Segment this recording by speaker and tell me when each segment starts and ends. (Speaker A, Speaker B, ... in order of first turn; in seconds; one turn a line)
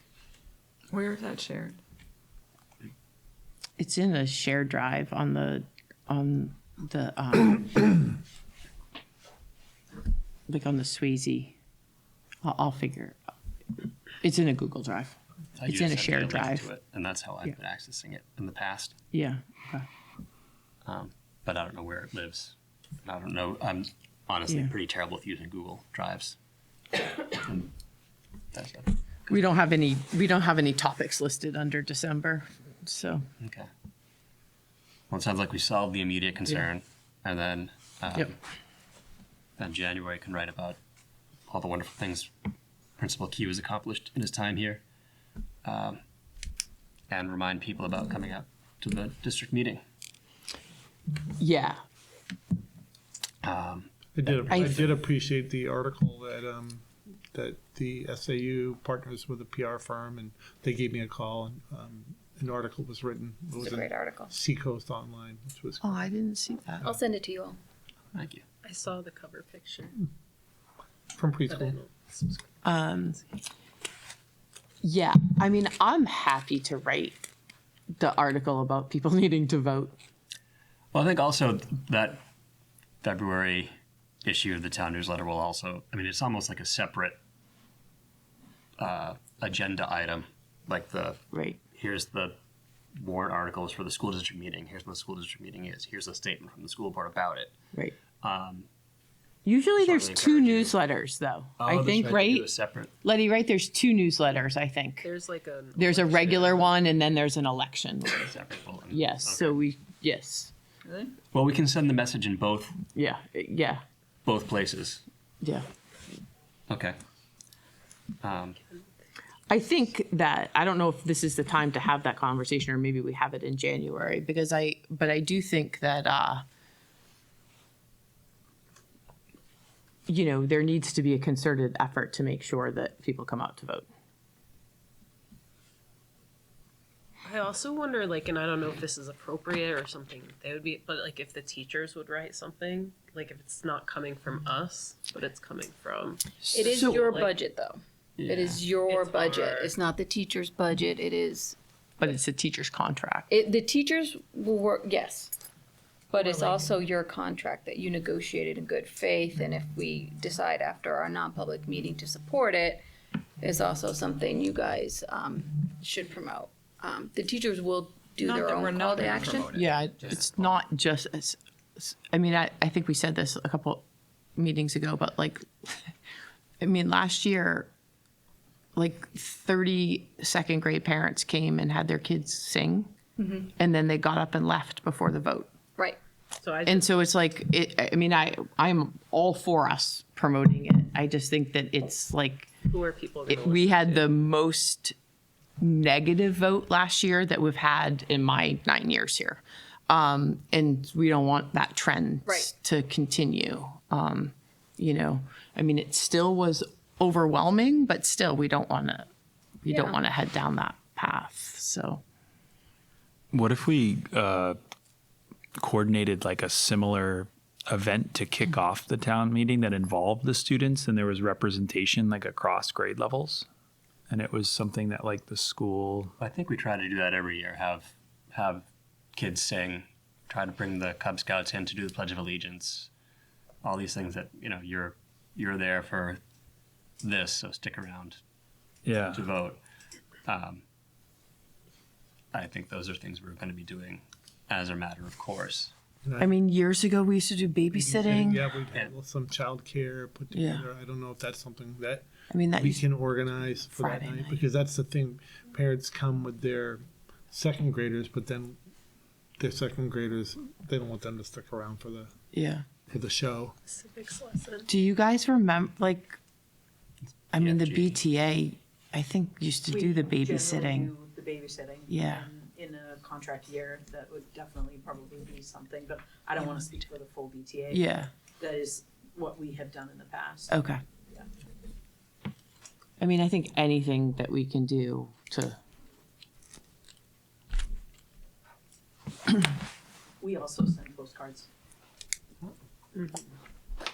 Speaker A: 0.9-1.8
Speaker B: 3.8-8.1
Speaker B: 10.5-11.6
Speaker B: 12.4-13.2
Speaker B: 14.2-16.7
Speaker C: 15.6-19.0
Speaker B: 19.1-19.9
Speaker C: 20.9-26.4
Speaker C: 27.3-27.7
Speaker C: 28.5-29.0
Speaker B: 29.3-33.2
Speaker C: 33.4-33.7
Speaker C: 35.1-38.4
Speaker C: 39.6-40.8
Speaker C: 41.5-42.3
Speaker C: 43.0-44.8
Speaker C: 45.6-46.0
Speaker C: 47.1-49.8
Speaker B: 51.4-51.8
Speaker C: 53.4-54.9
Speaker D: 54.1-66.1
Speaker B: 54.5-54.8
Speaker E: 63.6-64.3
Speaker B: 65.8-66.9
Speaker E: 66.8-67.6
Speaker C: 68.1-68.4
Speaker F: 68.6-70.0
Speaker D: 71.2-71.8
Speaker F: 71.5-72.5
Speaker B: 72.6-73.2
Speaker B: 74.8-77.3
Speaker B: 78.0-80.0
Speaker C: 80.9-82.2
Speaker C: 83.0-83.7
Speaker C: 84.2-87.2
Speaker C: 88.8-91.2
Speaker B: 91.3-91.6
Speaker C: 91.7-92.4
Speaker C: 93.0-97.6
Speaker C: 98.2-98.7
Speaker B: 99.5-102.5
Speaker C: 99.8-100.8
Speaker C: 101.6-102.9
Speaker B: 103.0-105.1
Speaker F: 105.0-106.8
Speaker B: 105.8-108.3
Speaker C: 108.2-109.6
Speaker B: 108.9-110.5
Speaker C: 111.3-112.8
Speaker B: 112.9-113.8
Speaker C: 114.2-115.0
Speaker B: 115.4-115.7
Speaker C: 116.7-117.0
Speaker C: 118.2-118.6
Speaker B: 119.5-126.4
Speaker B: 130.1-133.9
Speaker F: 137.2-147.4
Speaker E: 146.5-151.6
Speaker C: 148.2-148.6
Speaker F: 148.8-149.8
Speaker B: 152.0-153.3
Speaker E: 153.3-155.3
Speaker E: 156.1-162.8
Speaker F: 156.2-156.7
Speaker E: 163.4-169.5
Speaker A: 168.4-169.7
Speaker C: 169.4-170.6
Speaker B: 169.5-173.8
Speaker B: 174.4-175.9
Speaker B: 176.6-177.7
Speaker B: 178.8-182.9
Speaker E: 183.2-183.5
Speaker B: 183.6-185.5
Speaker F: 186.4-186.9
Speaker B: 186.7-192.5
Speaker F: 192.7-194.1
Speaker B: 193.3-195.0
Speaker B: 195.6-209.1
Speaker E: 202.3-202.5
Speaker B: 209.6-212.0
Speaker E: 209.7-210.0
Speaker G: 213.3-214.6
Speaker G: 215.6-223.5
Speaker G: 224.1-226.1
Speaker C: 226.2-232.9
Speaker C: 233.6-236.2
Speaker C: 237.0-238.2
Speaker G: 238.9-239.3
Speaker C: 239.1-239.6
Speaker C: 240.3-240.6
Speaker C: 242.3-245.7
Speaker D: 246.1-246.3
Speaker B: 246.2-248.5
Speaker D: 247.7-258.6
Speaker B: 250.3-250.7
Speaker B: 252.3-252.8
Speaker B: 253.7-254.4
Speaker D: 259.4-262.1
Speaker B: 262.3-262.7
Speaker D: 262.9-263.6
Speaker F: 263.7-264.7
Speaker B: 264.7-266.2
Speaker C: 267.2-268.0
Speaker B: 267.3-270.9
Speaker H: 269.7-280.6
Speaker B: 271.9-272.3
Speaker B: 277.7-278.1
Speaker B: 280.5-280.8
Speaker B: 283.0-285.6
Speaker H: 290.2-291.5
Speaker F: 292.9-293.3